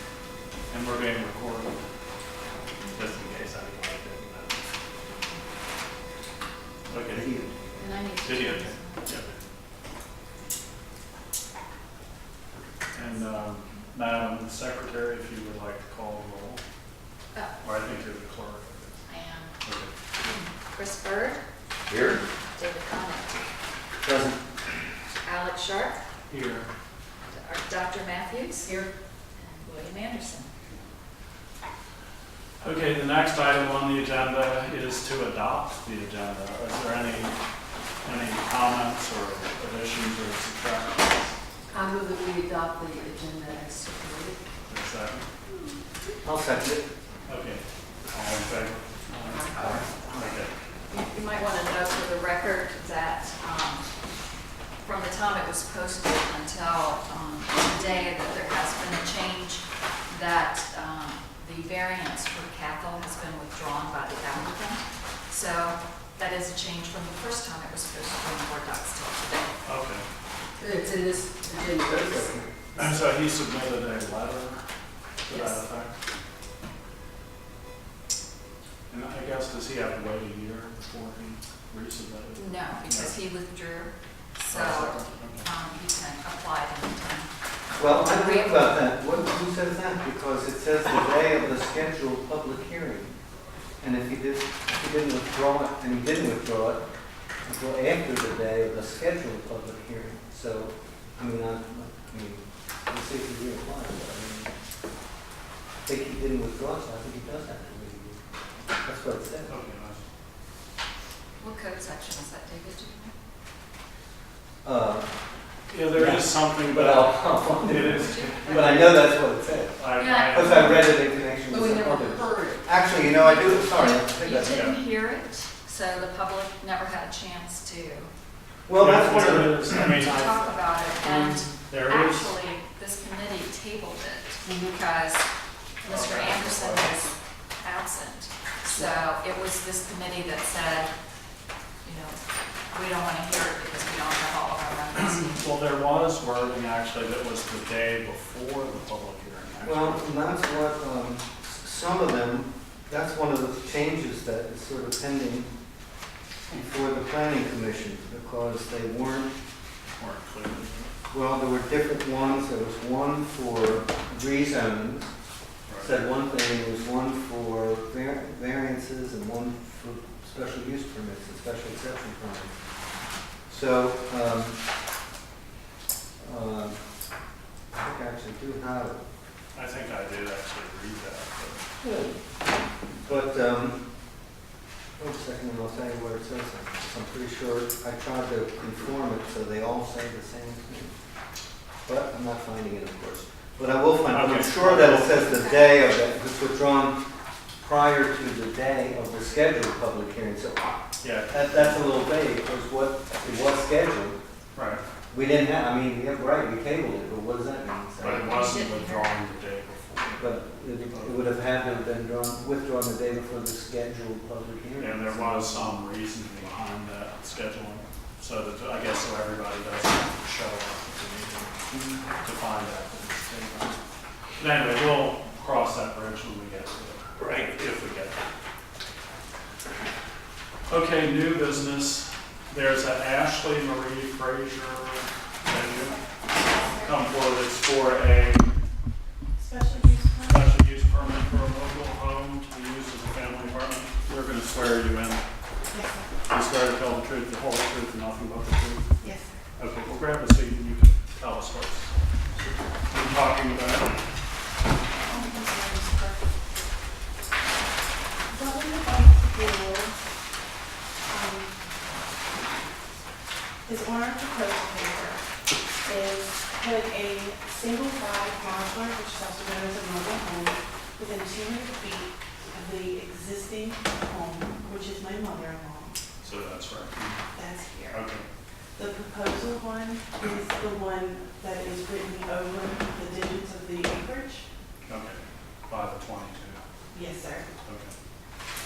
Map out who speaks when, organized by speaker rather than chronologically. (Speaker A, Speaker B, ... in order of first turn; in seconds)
Speaker A: 0.7-1.8, 2.9-4.7, 6.9-7.3, 8.2-9.3, 12.9-16.6, 17.6-19.0, 19.6-19.9, 26.3-26.6, 32.6-37.4, 38.0-41.3, 44.7-45.3, 47.3-50.5, 69.6-70.0, 72.8-74.6, 75.2-75.9, 78.9-83.1, 84.5-85.5, 109.5-110.0, 115.7-118.8, 119.8-120.9, 124.5-124.8, 128.7-132.3, 135.8-136.9, 144.9-150.0, 159.9-160.9, 165.7-166.0, 179.5-181.6, 194.1-195.3, 201.0-201.8, 204.5-204.8, 208.0-211.2, 214.8-221.7, 222.2-223.8, 224.4-228.2, 230.7-236.0, 236.7-238.4, 240.3-245.2, 246.3-248.9, 249.6-251.9, 252.9-254.0, 276.2-277.2, 277.9-278.3, 284.9-286.6, 287.6-287.9
Speaker B: 2.8-3.1, 5.0-5.4, 7.8-9.3, 13.0-13.8, 17.3-17.6, 19.1-19.5, 20.2-21.4, 22.5-23.5, 25.2-26.0, 27.3-28.7, 29.4-30.5, 50.9-53.9, 54.8-69.5, 75.3-75.6, 82.3-87.3, 87.8-88.9, 111.4-113.1, 117.8-119.0, 119.9-120.5, 123.1-128.1, 130.0-135.2, 135.8-140.9, 141.8-142.2, 142.7-145.5, 195.3-195.6, 208.0-209.2
Speaker C: 7.0-7.8, 21.9-22.2, 24.0-24.4, 46.2-46.9, 49.6-49.8, 71.8-73.0, 87.8-93.1, 93.8-96.8, 97.4-104.5, 105.8-108.2, 108.8-109.5, 114.6-115.1, 115.9-124.7, 128.7-129.8, 149.6-155.5, 156.5-159.3, 161.1-165.1, 165.8-172.5, 173.5-174.6, 176.2-176.8, 177.7-179.0, 181.8-182.1, 183.1-183.8, 185.0-190.9, 191.8-197.0, 197.6-204.2, 205.1-208.5, 210.2-215.7, 221.7-222.1
Speaker D: 28.6-28.9, 41.7-44.4, 70.6-72.3, 121.5-122.8, 134.4-134.7
Speaker E: 235.8-236.9, 239.4-240.5, 245.7-246.1, 249.0-249.3, 255.0-256.3, 258.3-259.9, 261.1-261.6, 263.6-265.2, 265.8-275.9, 277.3-278.0, 278.8-284.4, 286.9-287.5